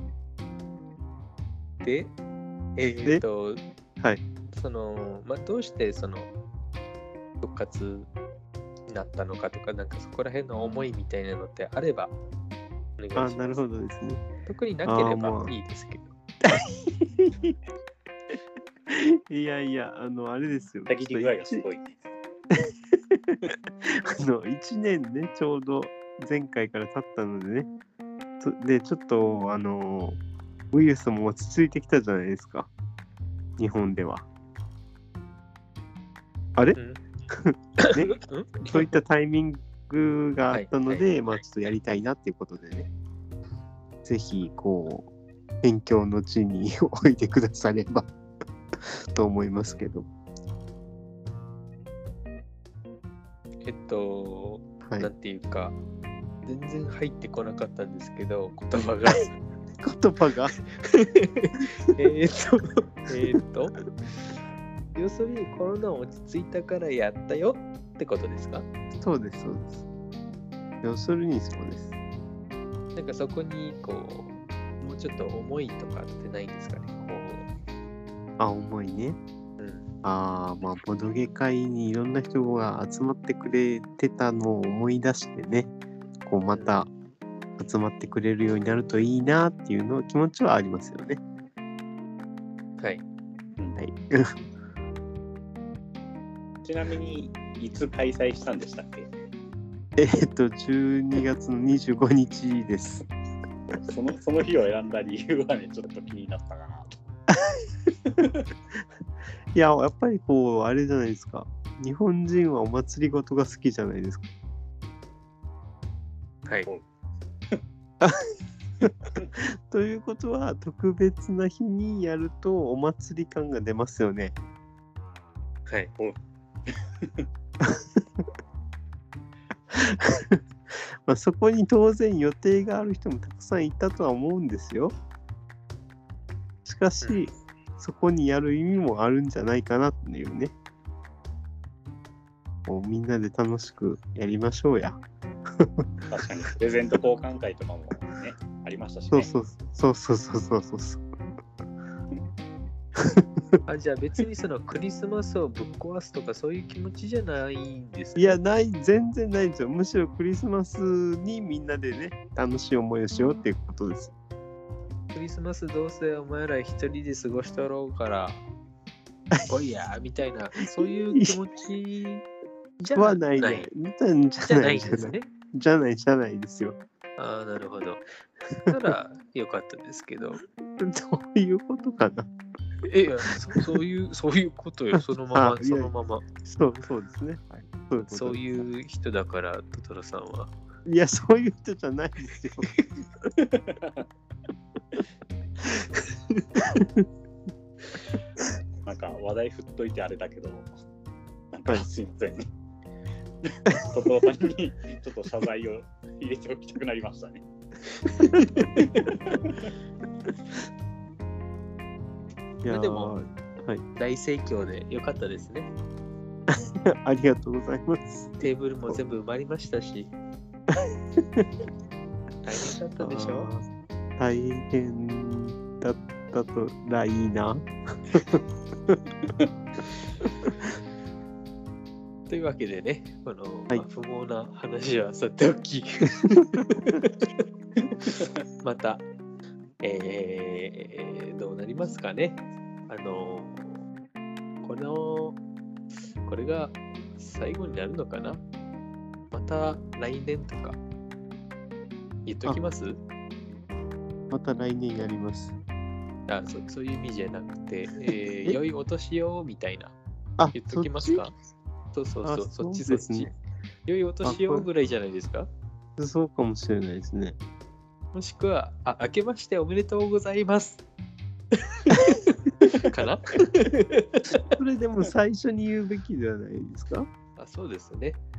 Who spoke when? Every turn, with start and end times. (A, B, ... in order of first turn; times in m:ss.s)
0:01.8-0:02.2 A
0:02.8-0:03.6 A
0:04.5-0:06.3 A
0:07.4-0:08.1 A
0:08.9-0:12.1 A
0:13.0-0:13.6 A
0:13.2-0:14.2 B
0:14.5-0:16.1 A
0:14.9-0:15.5 B
0:16.4-0:17.5 B
0:18.9-0:21.6 B
0:20.9-0:22.0 C
0:22.5-0:27.7 B
0:28.4-0:30.2 B
0:30.7-0:32.7 B
0:33.6-0:34.3 B
0:36.8-0:37.0 A
0:37.3-0:42.9 B
0:37.8-0:38.8 A
0:40.5-0:41.1 A
0:44.0-0:45.1 B
0:45.6-0:48.1 B
0:48.8-0:50.1 B
0:53.6-0:55.8 A
0:54.8-0:55.1 B
0:56.4-0:59.3 A
0:59.8-1:00.6 B
1:00.8-1:04.3 A
1:05.0-1:08.7 A
1:08.9-1:09.8 B
1:10.8-1:11.9 B
1:13.0-1:17.5 A
1:18.4-1:19.2 B
1:19.6-1:19.8 A
1:20.0-1:25.7 B
1:26.2-1:26.9 B
1:26.5-1:26.8 A
1:27.6-1:31.2 B
1:32.8-1:33.0 A
1:33.8-1:34.3 B
1:36.6-1:39.1 C
1:40.0-1:43.0 B
1:43.8-1:46.9 C
1:47.3-1:47.7 B
1:48.1-1:48.4 C
1:49.5-1:54.3 B
1:58.0-2:04.4 B
2:05.7-2:05.9 A
2:06.0-2:07.3 C
2:07.6-2:08.2 B
2:09.7-2:14.9 B
2:16.6-2:20.5 B
2:17.0-2:17.3 A
2:22.7-2:25.0 B
2:25.6-2:25.8 B
2:26.1-2:29.3 C
2:29.1-2:31.1 B
2:33.0-2:33.2 B
2:33.7-2:38.4 A
2:38.2-2:44.1 B
2:45.1-2:48.5 A
2:49.5-2:52.3 A
2:50.8-2:51.4 B
2:52.8-2:53.7 A
2:53.0-2:56.8 B
2:54.5-2:55.3 A
2:57.2-2:58.0 A
2:58.7-3:00.4 A
3:00.8-3:02.3 B
3:02.9-3:06.3 A
3:05.3-3:05.9 B
3:06.4-3:08.6 B
3:08.0-3:10.5 A
3:10.9-3:12.8 B
3:13.4-3:14.0 C
3:16.7-3:17.0 B
3:18.9-3:20.7 C
3:21.5-3:22.5 C
3:23.4-3:27.4 C
3:28.0-3:28.7 A
3:28.8-3:29.7 C
3:32.6-3:33.8 B
3:32.7-3:33.1 A
3:34.0-3:35.7 A
3:36.5-3:38.9 B
3:38.4-3:40.1 A
3:40.7-3:41.5 B
3:42.4-3:43.5 A
3:43.0-3:43.7 B
3:44.2-3:49.0 B
3:50.4-3:50.7 B
3:52.3-3:57.4 A
3:58.0-3:59.0 A
3:59.8-4:03.8 A
4:04.6-4:05.4 A
4:06.2-4:08.4 A
4:09.3-4:10.8 A
4:12.3-4:13.0 A
4:14.3-4:15.6 B
4:16.3-4:20.0 A
4:20.4-4:21.3 B
4:20.5-4:21.3 A
4:21.9-4:23.3 A
4:22.2-4:23.4 B
4:23.9-4:25.5 A
4:24.2-4:24.7 B
4:26.0-4:27.4 B
4:28.1-4:30.8 A
4:31.6-4:34.5 A
4:34.5-4:37.1 B
4:37.4-4:38.2 A